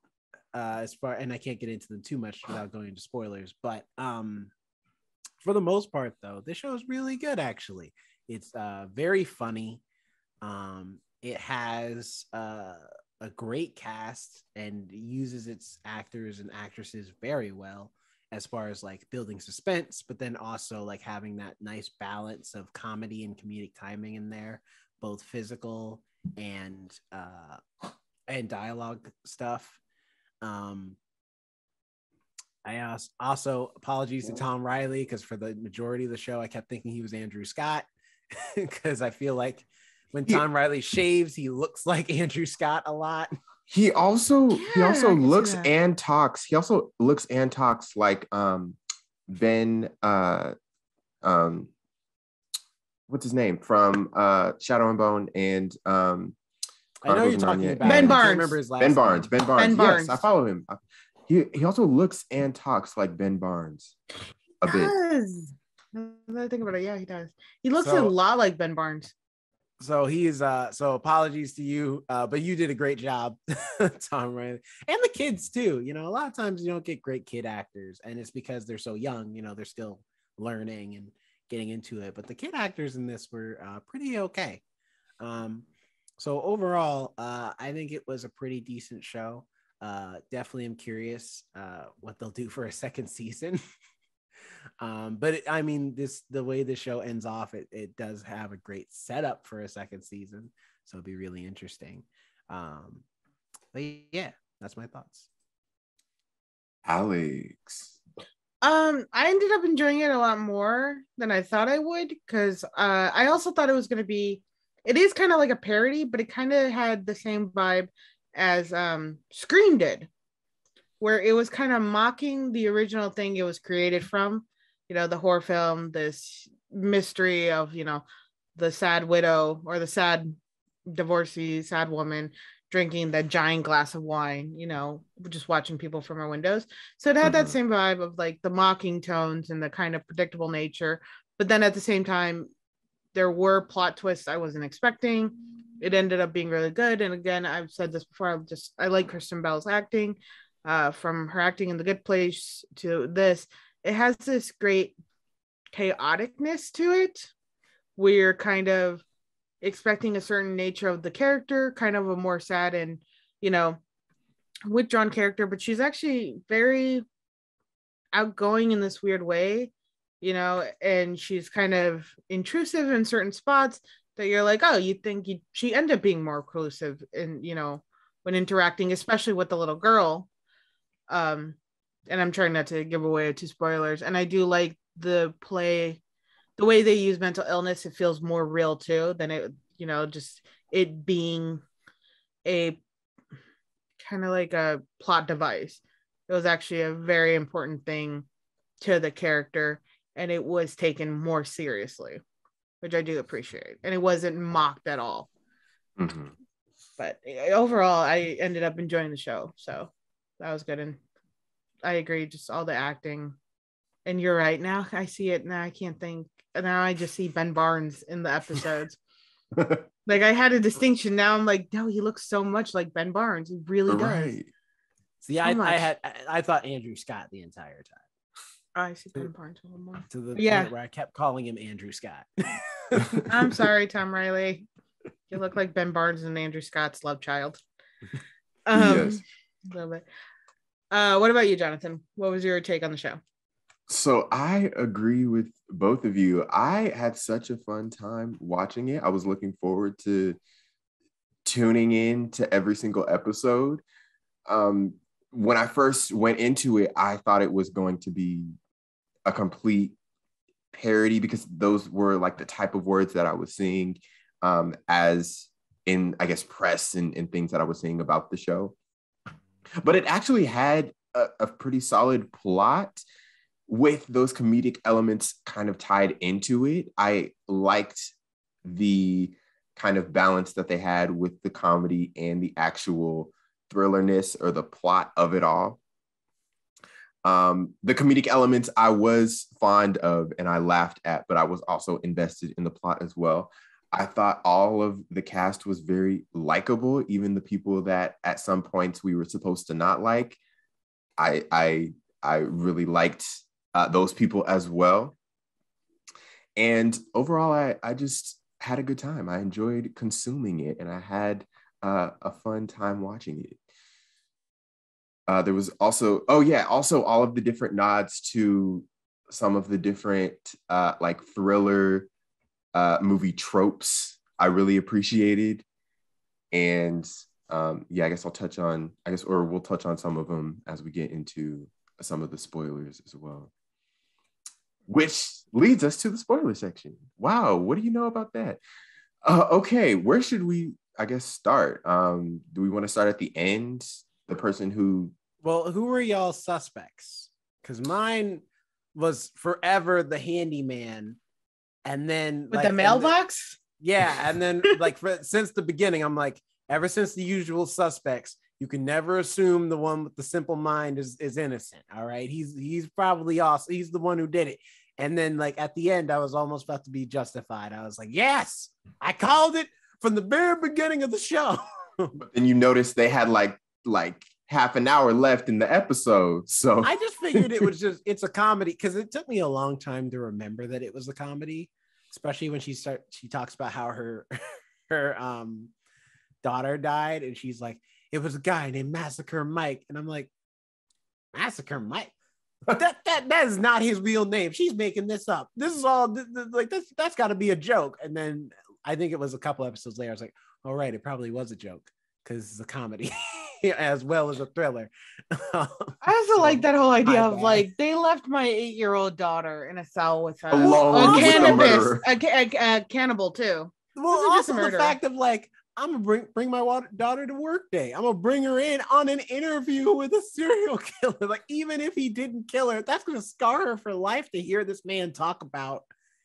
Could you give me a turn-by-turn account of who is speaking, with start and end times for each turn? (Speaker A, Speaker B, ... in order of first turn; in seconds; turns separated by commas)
Speaker A: 0.5-4.5, Speaker A: 5.4-9.8, Speaker A: 10.4-27.6, Speaker A: 28.3-29.8, Speaker A: 30.4-31.0, Speaker A: 32.6-43.3, Speaker B: 43.7-48.8, Speaker C: 44.5-45.7, Speaker B: 49.3-50.5, Speaker B: 51.2-51.7, Speaker B: 53.1-56.4, Speaker A: 57.0-59.3, Speaker B: 57.1-58.2, Speaker C: 57.8-58.6, Speaker B: 58.8-63.9, Speaker C: 59.6-60.2, Speaker B: 64.6-64.9, Speaker C: 64.6-69.1, Speaker A: 67.8-68.1, Speaker A: 69.8-84.6, Speaker A: 85.2-85.6, Speaker A: 86.2-93.6, Speaker A: 94.8-103.0, Speaker A: 103.7-105.3, Speaker B: 106.8-107.9, Speaker C: 108.6-120.1, Speaker C: 121.0-128.0, Speaker C: 128.6-142.5, Speaker B: 137.2-137.6, Speaker C: 143.1-154.9, Speaker C: 155.7-157.3, Speaker C: 158.0-159.0, Speaker C: 159.6-163.8, Speaker C: 164.7-167.0, Speaker C: 168.1-180.3, Speaker C: 181.1-181.6, Speaker C: 182.1-186.0, Speaker C: 186.6-191.6, Speaker C: 192.4-192.8, Speaker C: 194.0-198.2, Speaker C: 198.8-202.2, Speaker C: 202.8-205.3, Speaker B: 206.0-206.3, Speaker C: 207.0-211.0, Speaker C: 211.8-213.3, Speaker C: 214.0-219.0, Speaker B: 219.5-219.8, Speaker C: 220.1-224.3, Speaker B: 223.9-224.5, Speaker A: 225.2-228.0, Speaker C: 225.4-225.9, Speaker C: 228.7-230.7, Speaker A: 230.1-233.3, Speaker C: 233.3-234.7, Speaker C: 235.3-237.6, Speaker C: 238.7-240.0, Speaker B: 238.7-239.2, Speaker C: 240.9-243.2, Speaker B: 243.9-250.4, Speaker B: 251.4-253.8, Speaker B: 254.5-258.5, Speaker B: 259.2-260.0, Speaker B: 260.7-268.8, Speaker B: 269.8-273.0, Speaker B: 273.7-285.8, Speaker B: 287.2-300.4, Speaker B: 301.2-305.1, Speaker B: 306.6-313.6, Speaker B: 315.3-322.1, Speaker B: 322.7-325.6, Speaker B: 326.5-333.5, Speaker B: 334.9-338.6, Speaker B: 339.2-345.1, Speaker A: 345.4-348.4, Speaker A: 348.9-351.2, Speaker A: 351.9-353.1, Speaker C: 352.5-353.6, Speaker A: 353.8-372.1, Speaker B: 372.2-377.6, Speaker A: 376.8-384.3, Speaker A: 384.9-385.7, Speaker A: 386.4-390.3, Speaker A: 391.3-392.1, Speaker A: 392.7-407.7, Speaker C: 406.0-415.0, Speaker B: 410.5-412.0, Speaker A: 410.6-411.8, Speaker A: 413.9-425.8